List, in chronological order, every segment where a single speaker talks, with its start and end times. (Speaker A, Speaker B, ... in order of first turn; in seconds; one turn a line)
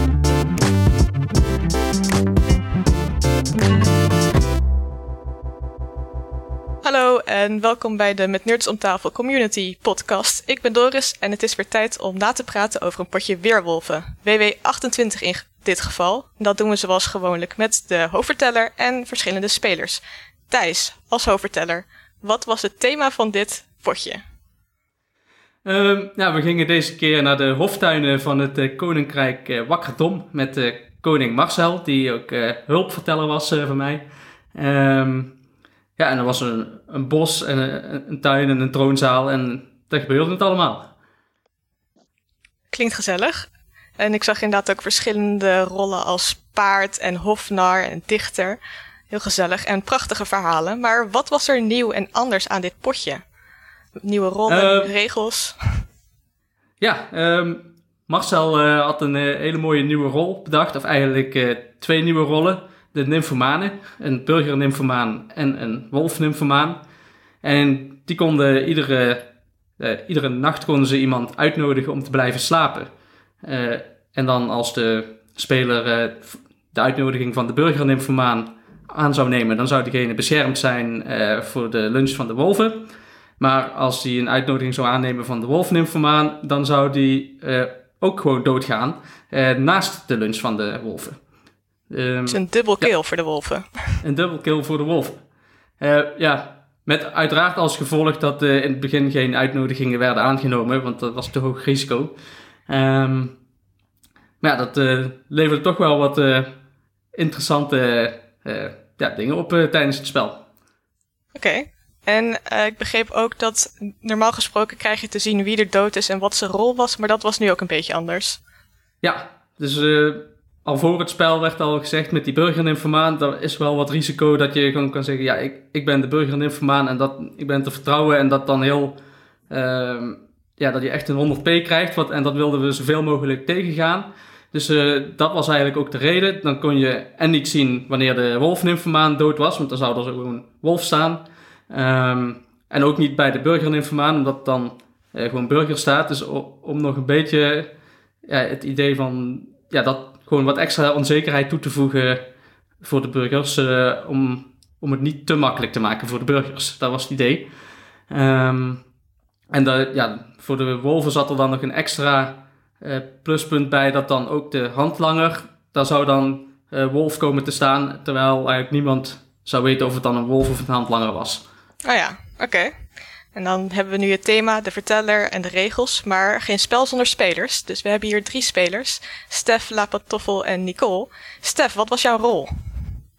Speaker A: 6.8-24.2
Speaker B: 25.6-35.4
Speaker B: 36.0-40.9
Speaker A: 42.7-48.6
Speaker A: 49.1-53.2
Speaker A: 54.0-55.8
Speaker B: 54.5-54.9
Speaker B: 56.8-66.8
Speaker B: 67.4-72.9
Speaker B: 73.4-91.2
Speaker B: 91.9-92.9
Speaker A: 92.3-93.7
Speaker B: 94.0-95.2
Speaker B: 95.8-102.2
Speaker B: 102.7-103.4
Speaker B: 104.4-106.5
Speaker B: 107.2-110.5
Speaker A: 111.3-118.4
Speaker B: 119.0-129.0
Speaker B: 129.5-147.7
Speaker B: 148.2-157.5
Speaker B: 158.1-158.8
Speaker B: 159.5-171.4
Speaker A: 171.8-172.7
Speaker A: 173.3-182.5